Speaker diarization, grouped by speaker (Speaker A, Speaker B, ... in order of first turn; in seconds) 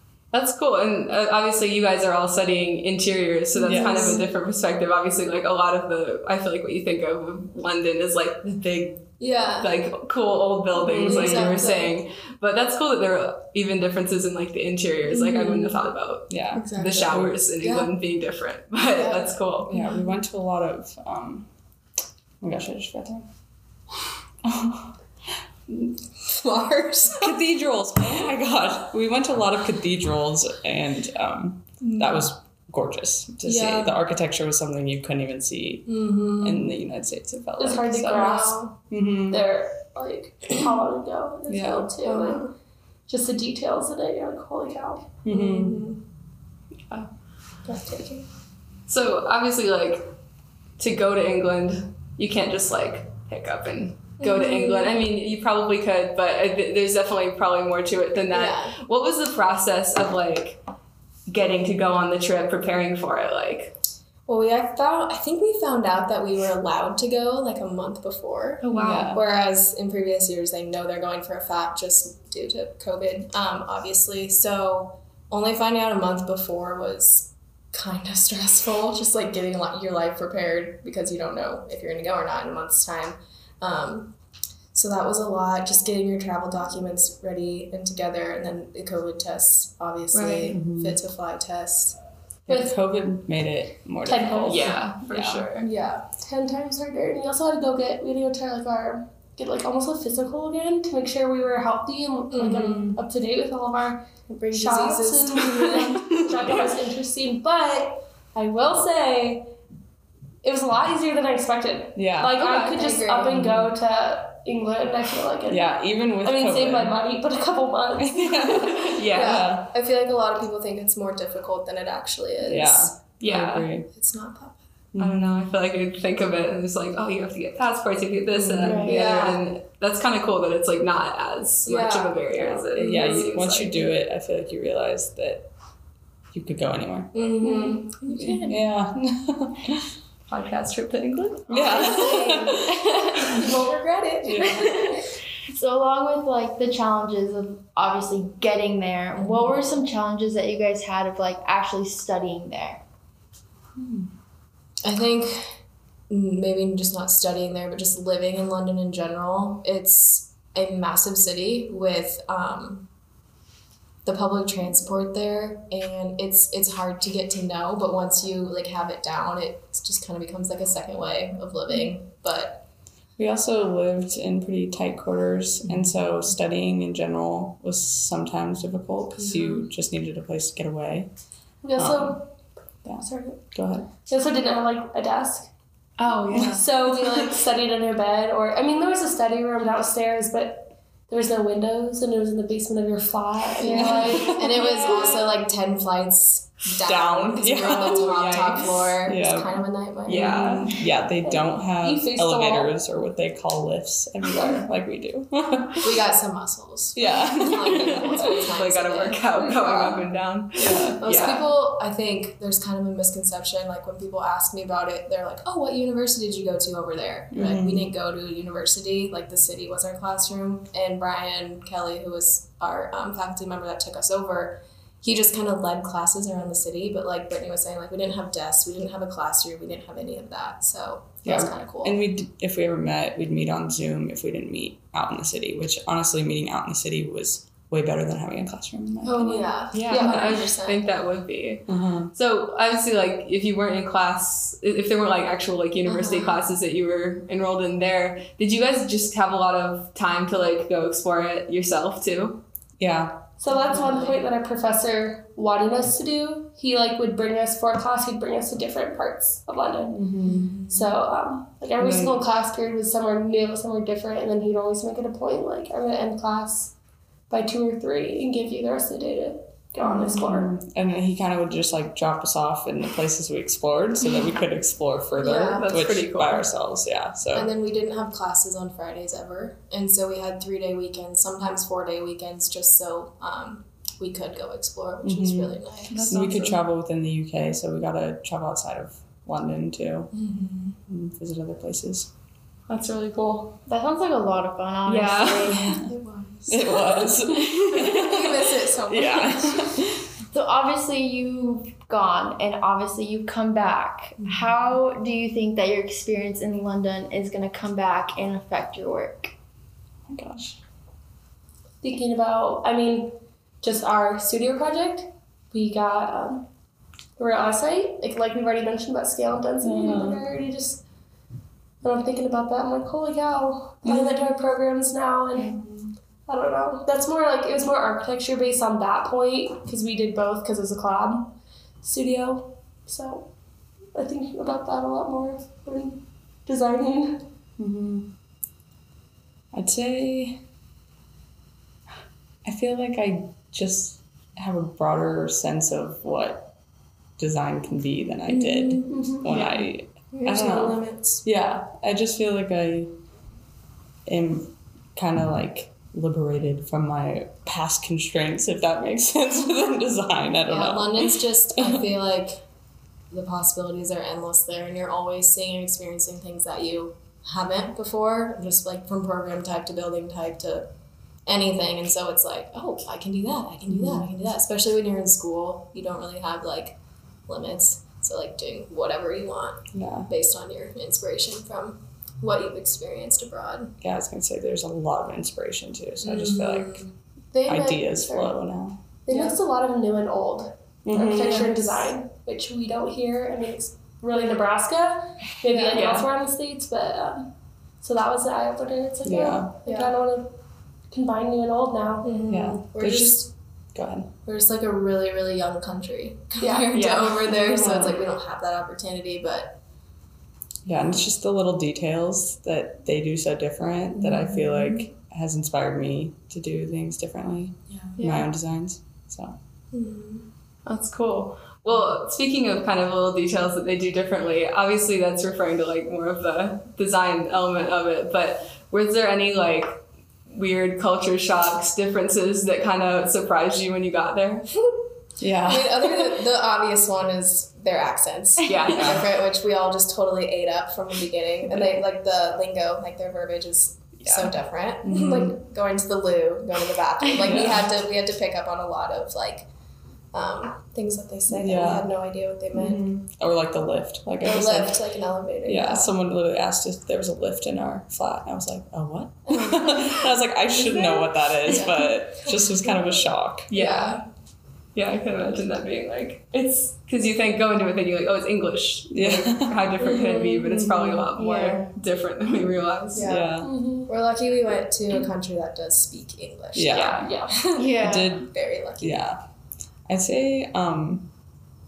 Speaker A: 0.3-9.0, 9.6-19.7, 48.9-50.1, 50.8-60.6, 61.3-63.8, 90.1-90.5, 94.5-95.7, 105.4-106.6, 112.4-112.7, 119.0-119.4, 123.2-123.7, 125.0-133.9, 140.3-142.0, 197.6-198.9, 200.1-200.7, 207.7-211.5, 239.7-252.4, 275.4-276.5, 285.9-286.6, 292.7-293.5, 294.8-295.5, 395.7-396.1, 406.7-407.2, 420.6-434.5, 438.4-439.0, 444.0-444.3, 463.5-464.0, 464.7-473.1
Speaker B: 3.5-4.2, 9.2-9.7, 10.7-12.0, 15.1-15.8, 16.5-17.9, 18.8-20.0, 25.7-27.4, 31.8-32.3, 33.4-33.9, 35.9-36.6, 38.4-38.7, 42.0-42.5, 45.3-46.0, 47.7-48.2, 54.2-55.0, 58.3-58.8, 64.3-84.1, 84.7-92.0, 95.6-96.2, 102.3-102.9, 112.7-113.7, 119.1-123.0, 123.9-124.6, 128.8-129.5, 131.6-132.2, 132.8-133.3, 137.1-138.6, 141.5-145.0, 154.8-155.6, 156.1-162.9, 164.0-172.6, 179.2-179.7, 194.2-200.6, 205.8-210.0, 210.7-232.0, 239.0-240.8, 245.8-246.4, 253.5-254.2, 260.2-260.9, 275.2-275.7, 277.3-286.1, 290.1-290.8, 295.4-299.8, 348.3-349.4, 350.1-351.2, 360.5-362.4, 363.1-370.7, 371.2-383.7, 386.0-386.9, 389.1-389.4, 391.2-391.7, 395.5-395.9, 399.6-399.9, 402.0-403.3, 404.2-409.6, 414.0-414.8, 417.7-418.3, 419.7-420.3, 435.4-449.5, 450.1-452.8, 454.2-455.9, 459.3-464.0, 472.9-479.1
Speaker C: 3.7-4.2, 16.3-17.4, 19.7-21.5, 22.4-23.3, 24.4-25.0, 27.2-39.4, 41.5-41.9, 45.2-45.8, 68.7-69.2, 90.5-91.0, 92.5-95.5, 102.7-103.0, 111.9-112.4, 115.5-117.0, 118.0-119.7, 122.4-123.9, 124.9-125.5, 128.3-128.9, 132.3-135.5, 136.3-137.1, 138.1-139.9, 141.5-142.8, 144.2-144.8, 149.2-149.8, 153.8-154.1, 173.2-181.1, 181.8-182.2, 182.8-183.9, 186.3-187.2, 193.8-194.5, 196.8-199.6, 200.1-206.0, 206.9-208.1, 210.6-211.0, 217.3-217.9, 231.2-239.7, 241.7-242.1, 252.8-253.2, 259.9-260.5, 261.8-262.2, 269.9-277.5, 285.0-290.1, 290.9-292.1, 296.5-300.1, 304.2-304.5, 310.1-310.6, 319.6-320.2, 337.6-338.1, 339.5-340.4, 342.4-346.5, 347.2-352.9, 354.1-362.0, 373.7-374.1, 379.7-380.1, 383.8-386.8, 387.5-388.8, 390.8-391.7, 399.0-399.5, 402.3-404.1, 407.3-408.1, 410.6-419.4, 435.2-435.7, 438.6-439.1, 444.8-445.3, 447.2-447.7, 451.3-451.9, 452.5-454.8, 455.4-463.5, 468.9-471.1, 473.0-473.5, 476.5-477.2, 477.8-479.2, 479.9-481.1
Speaker D: 37.6-38.7, 39.3-42.4, 43.1-45.1, 92.5-92.7, 94.1-94.7, 96.2-109.5, 110.4-115.7, 116.2-118.8, 181.6-182.2, 183.0-183.4, 184.1-185.5, 186.5-195.3, 201.2-202.7, 204.3-204.6, 239.9-240.3, 253.4-259.9, 260.7-266.7, 267.3-270.5, 311.8-316.4, 317.2-320.8, 321.8-325.6, 326.3-333.3, 333.9-337.2, 348.9-349.5, 387.3-388.3, 389.1-397.3, 397.8-400.3, 400.9-402.1, 473.4-473.9, 477.0-477.3
Speaker E: 104.3-105.8, 128.6-129.1, 142.1-143.5, 144.4-152.8, 186.0-186.6, 193.6-194.2, 293.7-295.8, 300.3-309.3, 471.1-471.7, 477.6-478.1